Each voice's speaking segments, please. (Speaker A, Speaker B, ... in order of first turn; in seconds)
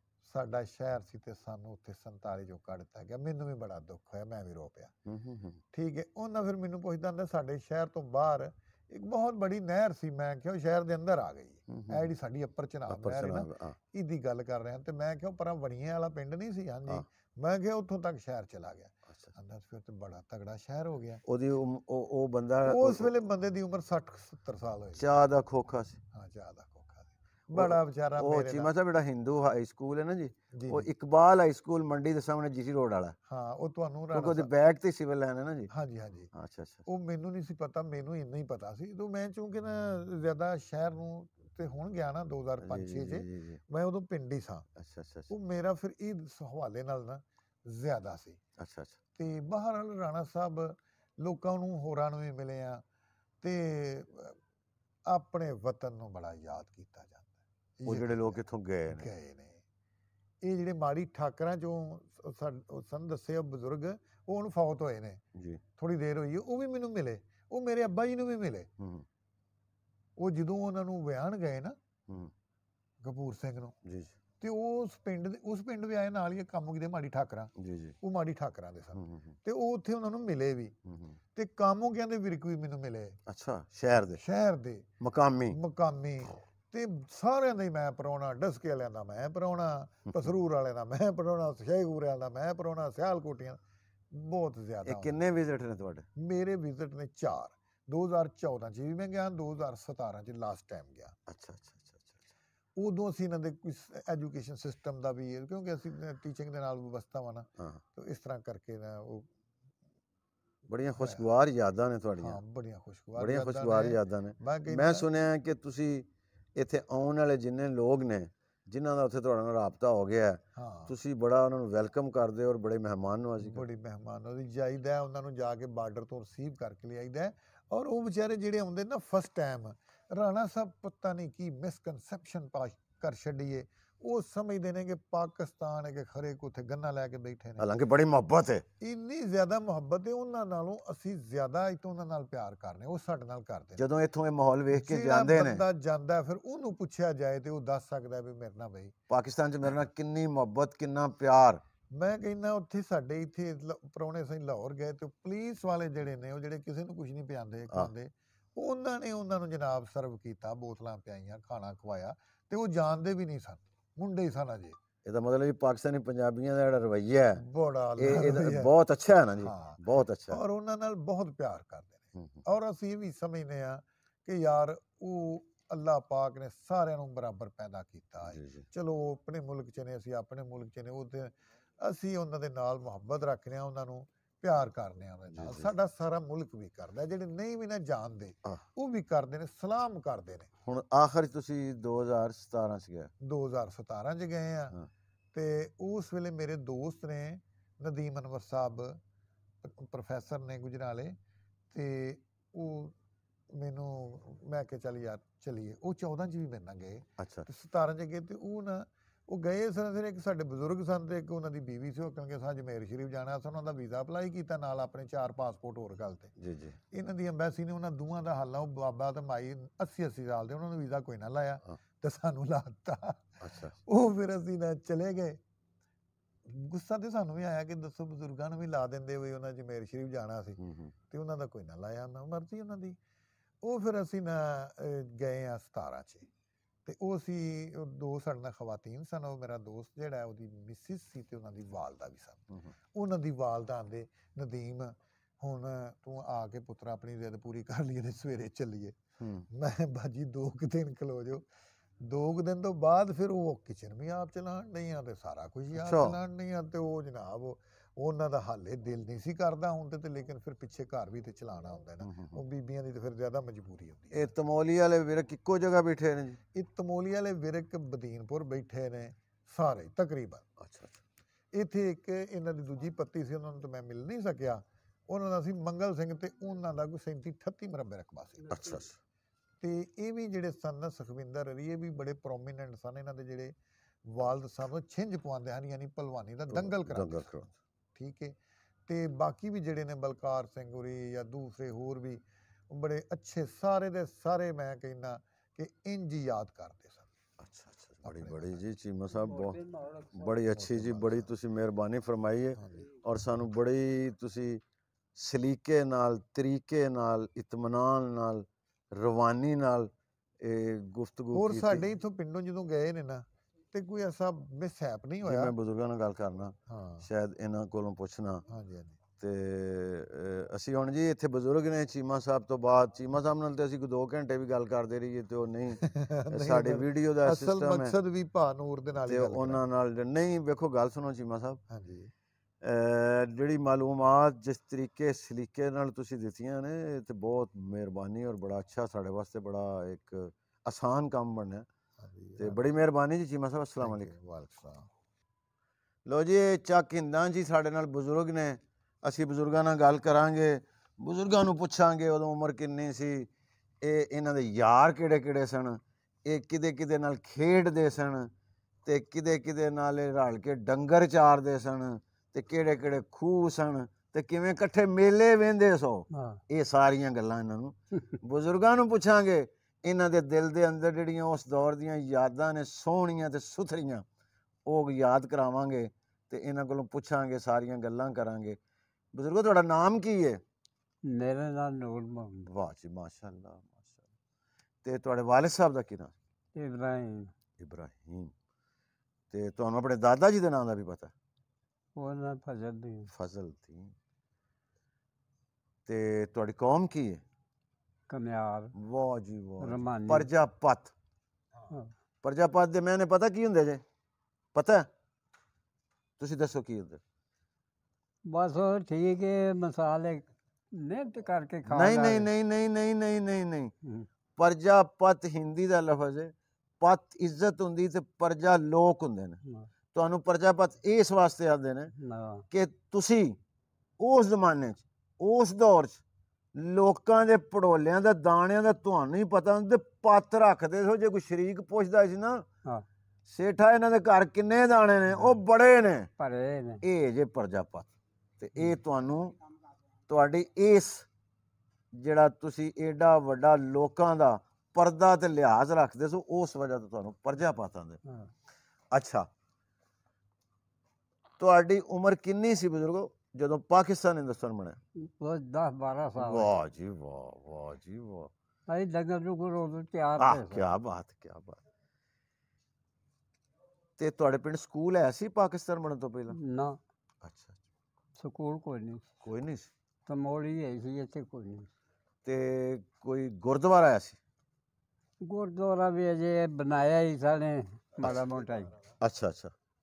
Speaker A: 0.2-4.9, 5.7-21.2, 22.6-25.0, 26.1-28.7, 30.5-30.9, 33.3-34.5, 35.7-36.3, 36.9-44.7, 45.3-48.4, 49.2-52.8, 53.4-54.4, 55.1-59.6, 60.4-65.2, 65.8-68.7, 70.2-71.8, 73.0-73.8, 74.4-80.7, 81.3-83.2, 84.2-84.9, 85.5-93.6, 94.1-95.2, 96.2-101.2, 102.8-109.3, 111.0-111.3, 112.2-115.1, 120.5-120.9, 123.4-137.7, 138.8-143.8, 144.7-148.9, 151.9-164.8, 167.3-168.7, 169.4-190.5, 193.2-194.8, 195.3-199.0, 199.6-201.2, 201.7-202.9, 203.5-216.3, 216.9-225.4, 226.5-233.0, 233.6-236.3, 236.8-249.0, 249.5-251.4, 252.0-264.3, 266.5-270.4, 271.5-278.7, 279.6-283.5, 284.1-287.2, 287.9-288.3, 288.9-297.1, 298.0-298.6, 300.5-301.3, 302.6-302.9, 311.3-315.5, 316.7-317.1, 318.5-319.0, 325.8-329.6, 331.7-332.1, 342.0-342.6, 343.8-344.9
Speaker B: 5.0-5.6, 11.7-12.1, 12.9-13.8, 21.2-23.1, 24.9-26.0, 27.5-33.1, 34.1-35.7, 36.3-36.8, 42.6-43.6, 44.8-45.3, 48.6-49.0, 57.9-59.1, 65.3-65.6, 68.8-69.0, 72.1-72.3, 73.8-74.1, 77.6-78.0, 78.9-79.3, 80.8-81.2, 83.3-84.2, 85.0-85.6, 94.8-96.1, 101.3-102.3, 110.7-112.4, 113.2-123.6, 137.6-138.6, 143.7-145.6, 149.1-151.6, 165.0-167.4, 168.0-170.4, 172.1-172.4, 178.3-178.7, 185.3-185.7, 190.6-193.1, 207.2-207.5, 216.4-216.8, 223.4-223.8, 230.6-230.9, 249.2-249.5, 255.7-256.2, 262.0-262.4, 264.1-266.4, 270.6-271.0, 278.5-279.0, 286.5-287.5, 297.4-299.6, 300.1-304.6, 305.1-311.9, 315.2-318.4, 319.2-327.9, 329.0-331.6, 332.6-341.6, 342.4-344.1, 346.1-353.3, 353.8-358.3, 358.8-374.0, 374.6-378.6, 379.1-380.4, 382.4-384.0, 384.8-386.1, 387.6-388.3, 389.3-391.1, 393.1-393.9, 395.9-397.2, 398.8-400.9, 402.2-403.8, 404.5-404.9, 406.2-407.0, 411.6-413.7, 414.4-419.4, 419.9-421.9, 422.5-423.4, 424.0-426.0, 426.5-432.4, 433.3-436.1, 436.8-439.3, 440.1-441.1, 441.9-448.0, 448.9-449.3, 451.4-454.8, 456.2-458.3, 460.2-461.6, 464.0-466.4, 467.2-467.6, 469.2-469.7, 472.2-474.2, 479.0-479.5
Speaker C: 299.2-300.3, 366.1-366.4, 381.0-382.5, 386.5-387.3, 391.9-393.1, 398.1-398.7, 399.6-400.3, 408.2-412.3, 422.0-422.4, 436.2-436.8, 455.0-456.5, 458.7-460.6, 466.3-466.8, 468.2-469.2, 470.1-471.7, 475.2-478.7